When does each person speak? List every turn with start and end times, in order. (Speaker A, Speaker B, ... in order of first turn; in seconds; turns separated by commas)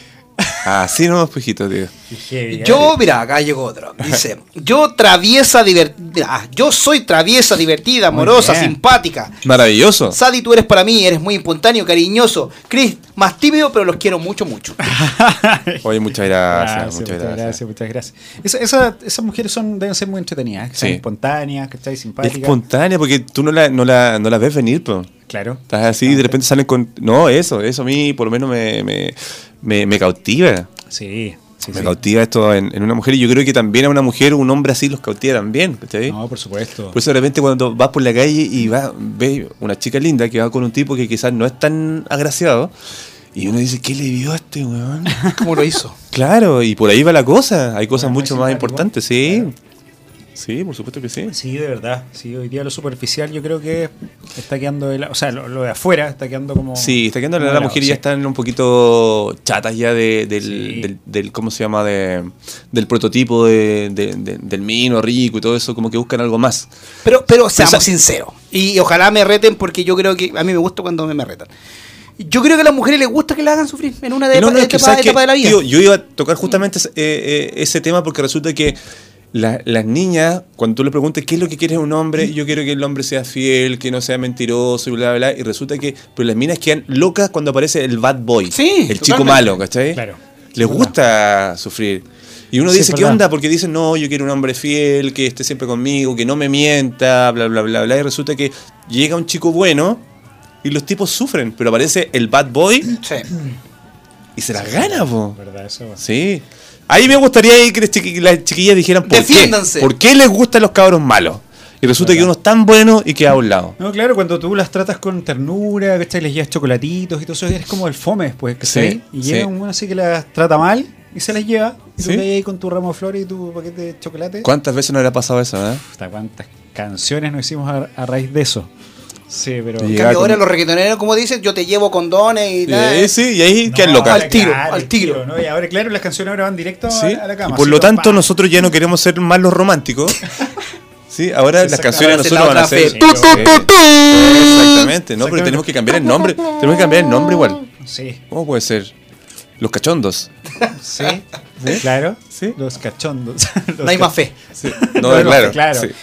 Speaker A: 0.6-1.9, Speaker B: 2.1-2.9, Speaker C: 2.5-9.4, Speaker B: 8.1-8.8, Speaker A: 9.4-10.2, Speaker C: 10.1-14.8, Speaker B: 14.8-15.9, Speaker A: 15.8-17.6, Speaker B: 16.5-22.6, Speaker A: 20.8-21.0, Speaker A: 22.2-25.1, Speaker B: 25.3-26.4, Speaker A: 25.7-30.7, Speaker B: 30.9-32.0, Speaker A: 31.7-36.2, Speaker B: 36.1-37.0, Speaker A: 36.9-42.7, Speaker A: 43.3-45.2, Speaker C: 45.3-46.0, Speaker A: 46.1-49.5, Speaker B: 48.0-49.5, Speaker A: 50.4-51.4, Speaker B: 51.3-58.0, Speaker A: 56.8-66.7, Speaker B: 60.4-60.9, Speaker C: 67.0-71.5, Speaker A: 67.6-67.9, Speaker C: 72.2-75.6, Speaker A: 74.3-78.8, Speaker A: 79.3-90.0, Speaker C: 88.5-89.6, Speaker B: 89.9-91.0, Speaker A: 90.5-100.0, Speaker B: 92.7-93.2, Speaker A: 100.6-103.0, Speaker C: 103.0-103.3, Speaker A: 104.4-105.4, Speaker B: 104.5-106.0, Speaker A: 106.0-113.8, Speaker C: 109.1-109.9, Speaker B: 112.0-112.3, Speaker B: 113.8-124.5, Speaker A: 118.6-119.5, Speaker A: 122.0-122.3, Speaker A: 124.4-125.8, Speaker B: 125.8-128.7, Speaker B: 129.3-130.0, Speaker A: 129.8-130.4, Speaker C: 129.9-133.1, Speaker A: 132.7-134.3, Speaker B: 133.6-138.3, Speaker C: 134.1-135.2, Speaker A: 136.9-140.2, Speaker A: 141.1-147.6, Speaker B: 141.6-143.7, Speaker C: 141.9-144.4, Speaker B: 145.2-145.7, Speaker B: 147.8-148.2, Speaker A: 148.3-148.9, Speaker A: 149.6-150.3, Speaker B: 150.7-154.1, Speaker A: 151.6-152.6, Speaker C: 153.8-154.4, Speaker A: 154.6-155.9, Speaker B: 154.7-155.9